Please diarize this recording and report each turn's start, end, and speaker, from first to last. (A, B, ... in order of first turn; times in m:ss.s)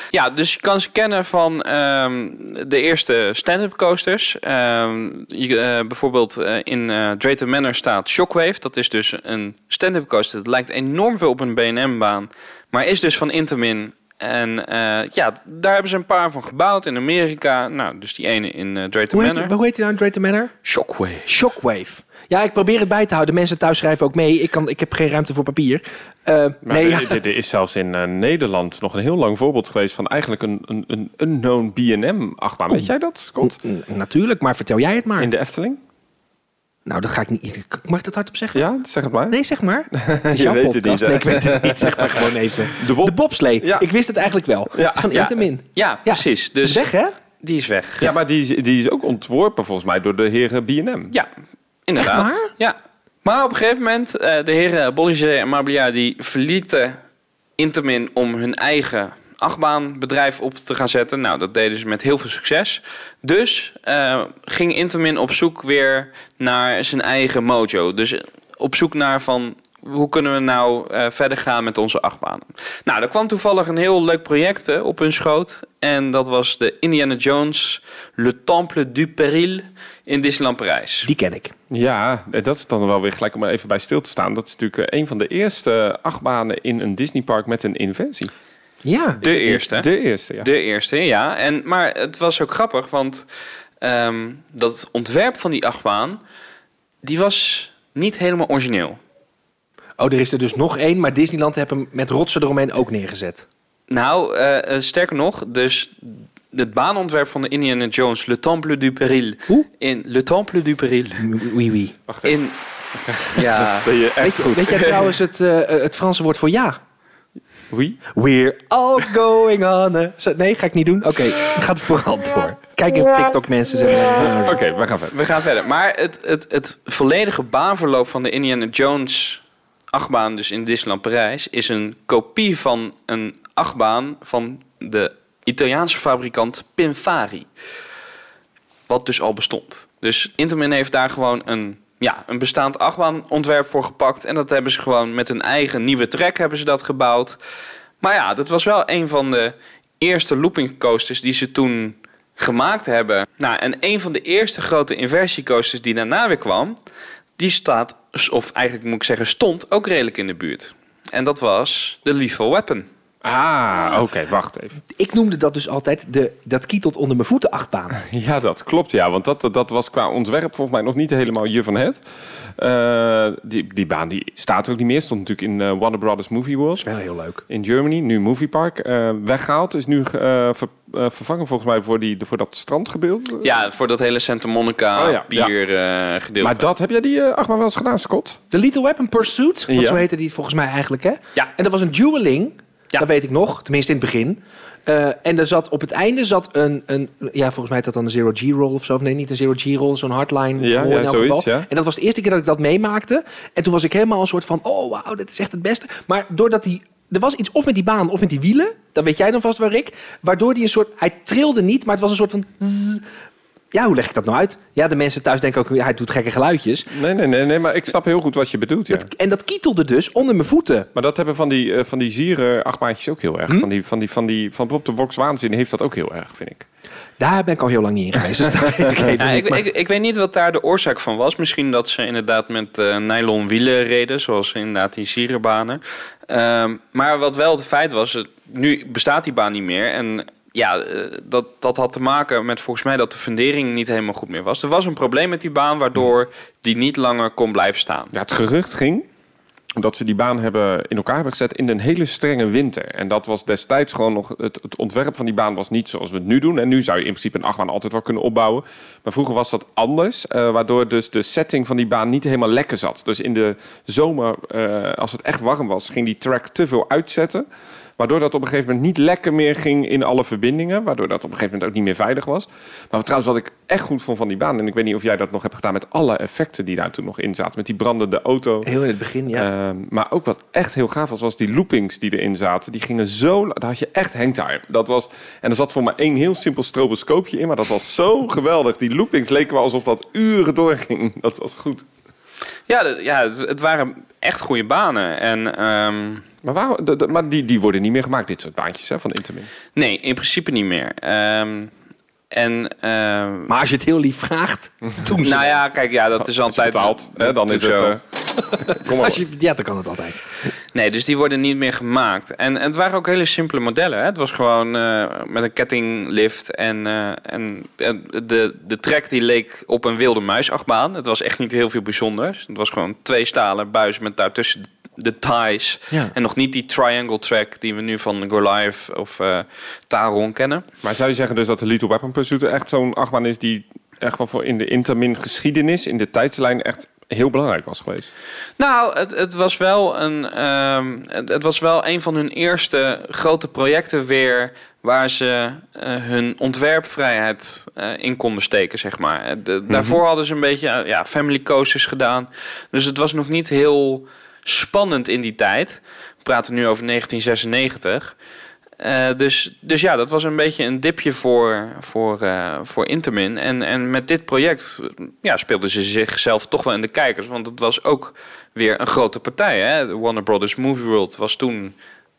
0:00.1-0:19.5 A
0:19.1-0:20.5 B
0:20.6-0:21.4 A
0:21.2-0:27.2 B
0:26.6-0:33.6 C
0:33.4-0:35.3 B
0:35.2-0:35.8 C
0:36.8-0:38.6 B
0:38.5-0:39.4 C
0:39.3-0:47.1 B
0:39.9-0:43.8 C
0:44.7-0:45.2 C
0:45.1-0:48.1 A
0:48.0-0:51.1 C
0:51.9-0:57.0 A
0:52.0-0:52.5 B
0:57.6-1:21.1 A
1:21.0-1:21.5 B
1:21.7-1:28.3 C
1:28.8-1:29.2 B
1:29.2-1:29.9 A
1:29.2-1:30.5 C
1:30.4-1:33.2 A
1:33.8-1:36.2 A
1:37.0-1:39.0 A
1:40.0-1:43.4 B
1:43.9-1:51.3 A
1:51.2-1:52.0 B
1:52.1-1:52.4 C
1:52.2-1:52.6 A
1:53.0-1:55.0 C
1:53.3-1:53.9 A
1:54.2-1:56.8 B
1:57.7-1:58.0 C
1:58.1-2:04.6 B
2:04.2-2:05.1 C
2:05.1-2:17.5 A
2:18.9-2:27.4 A
2:28.0-2:36.8 A
2:37.4-2:42.9 A
2:43.2-2:44.8 C
2:44.9-2:48.0 B
2:48.0-2:52.0 C
2:52.6-2:56.8 C
2:56.8-2:57.4 B
2:57.5-3:03.6 C
3:03.4-3:06.7 A
3:04.9-3:05.5 C
3:06.4-3:08.4 C
3:08.5-3:33.0 B
3:09.7-3:10.0 C
3:20.6-3:21.7 C
3:33.7-3:36.9 B
3:36.9-3:39.1 C
3:38.9-3:40.9 B
3:40.9-3:46.6 C
3:47.2-3:49.6 B
3:49.2-4:08.1 A
4:08.1-4:09.0 C
4:09.8-4:27.4 C
4:28.0-4:38.7 C
4:38.6-4:39.5 B
4:39.3-4:51.8 C
4:52.7-4:56.2 A
4:56.4-4:59.5 C
4:59.7-5:01.7 A
5:02.3-5:03.5 A
5:03.5-5:05.6 B
5:05.2-5:07.9 A
5:06.2-5:09.2 C
5:08.6-5:10.2 B
5:10.7-5:30.6 A
5:30.8-5:38.1 C
5:38.6-5:58.2 A
5:49.7-5:50.0 C
5:58.8-6:11.7 A